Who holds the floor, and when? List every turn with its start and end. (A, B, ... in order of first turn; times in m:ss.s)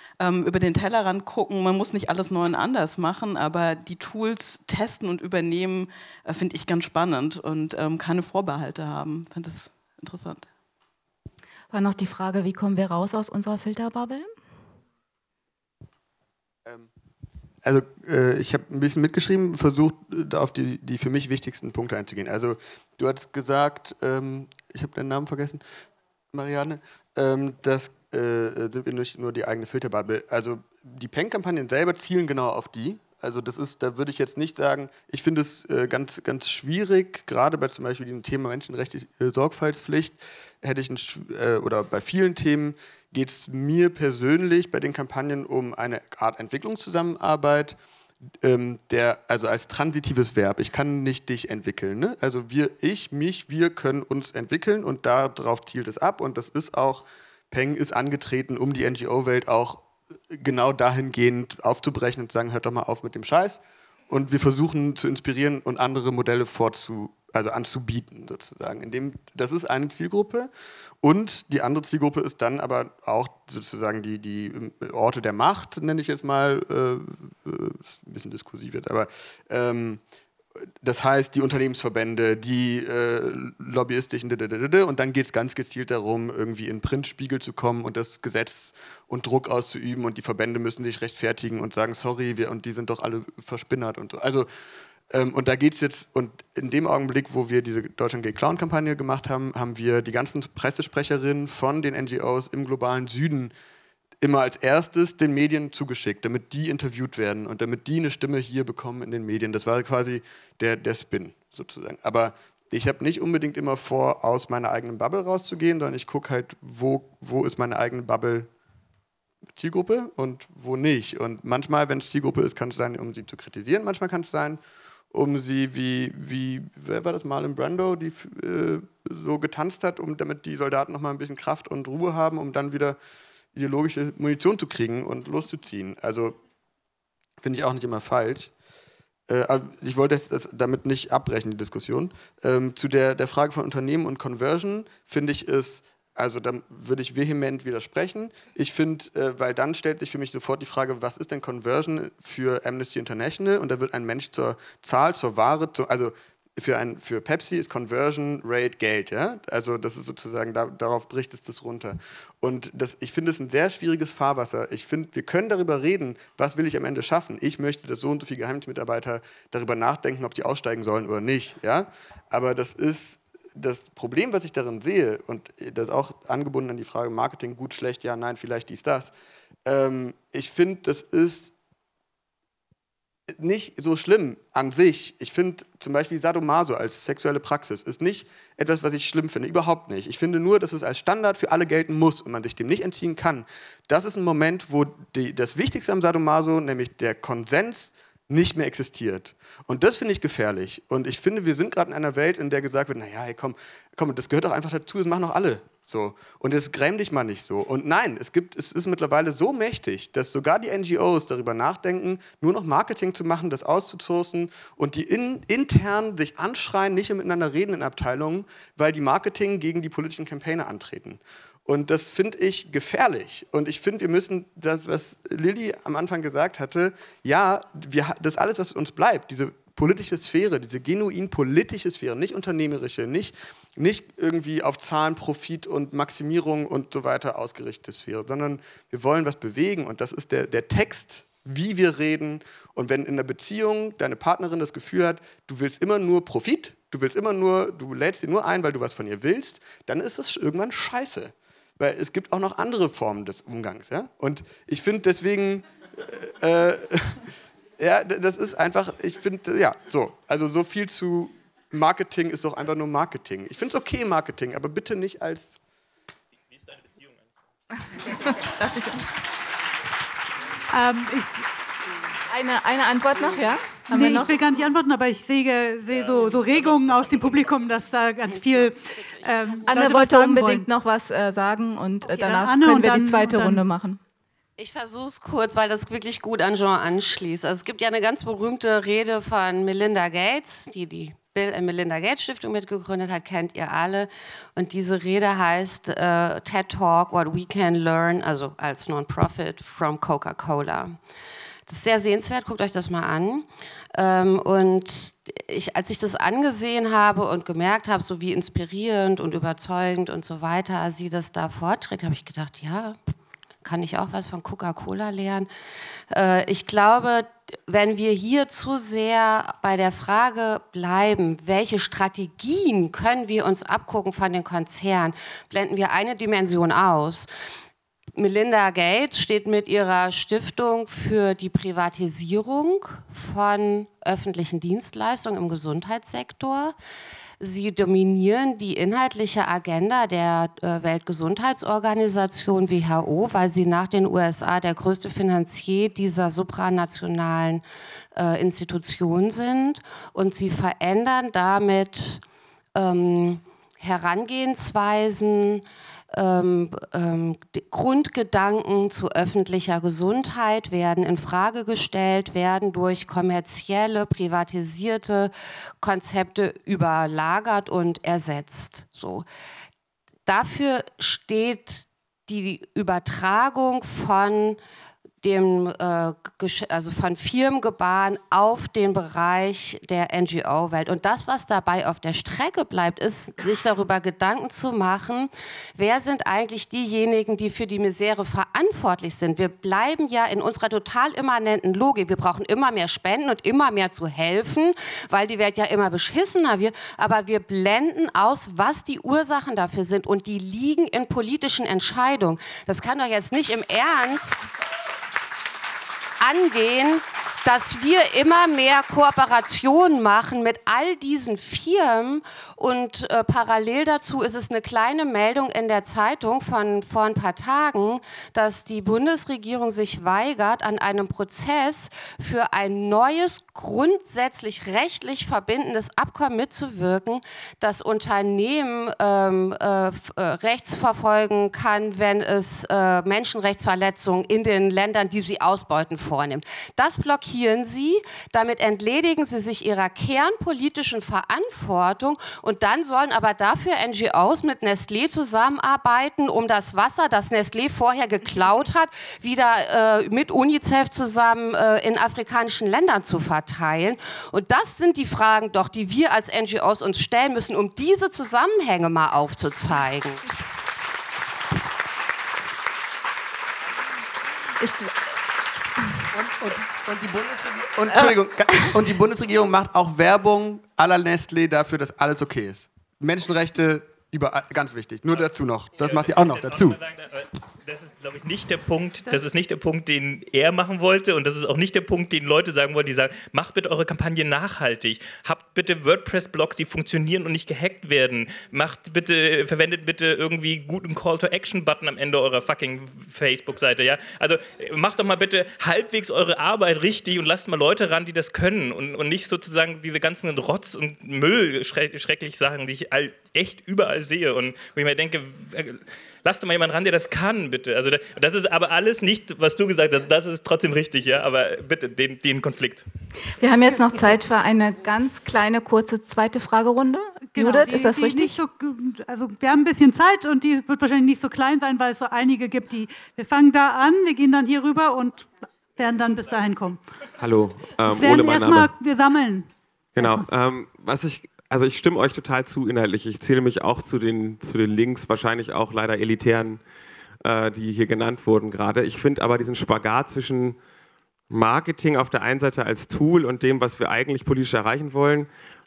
0:00.2-0:10.5 A
0:11.7-0:14.3 B
0:17.6-0:25.6 C
0:26.3-0:47.8 C
0:48.4-1:10.5 C
1:11.0-1:20.0 C
1:20.8-1:34.5 C
1:35.1-1:43.5 C
1:44.2-1:58.5 C
1:59.5-2:04.6 C
2:05.1-2:13.0 C
2:13.5-2:16.4 C
2:17.4-2:18.5 C
2:19.3-2:59.1 C
2:59.6-3:01.5 C
3:03.3-4:17.3 C
4:17.8-4:25.6 C
4:26.7-4:27.2 D
4:28.1-4:29.0 B
4:30.7-4:31.5 E
4:32.3-4:34.3 B
4:33.9-4:40.7 E
4:35.9-4:37.5 D
4:38.3-4:39.6 F
4:39.7-4:44.0 B
4:42.0-4:43.6 E
4:44.6-5:01.0 F
5:01.7-5:13.0 F
5:13.6-5:15.5 F
5:16.1-5:27.3 F
5:28.1-5:36.8 F
5:37.4-5:47.6 F
5:48.1-5:52.2 F
5:52.7-6:09.2 F
6:10.2-6:14.6 F
6:15.2-6:44.5 F
6:46.2-7:40.2 F
7:44.6-7:44.9 B
7:46.1-7:56.8 C
7:47.9-7:48.8 B
7:55.8-8:32.8 D
8:33.4-8:38.4 B
8:37.3-8:46.8 E
8:47.2-8:48.7 G
8:47.9-8:50.3 E
8:50.0-8:56.6 G
8:57.2-9:00.6 G
9:01.3-9:05.3 G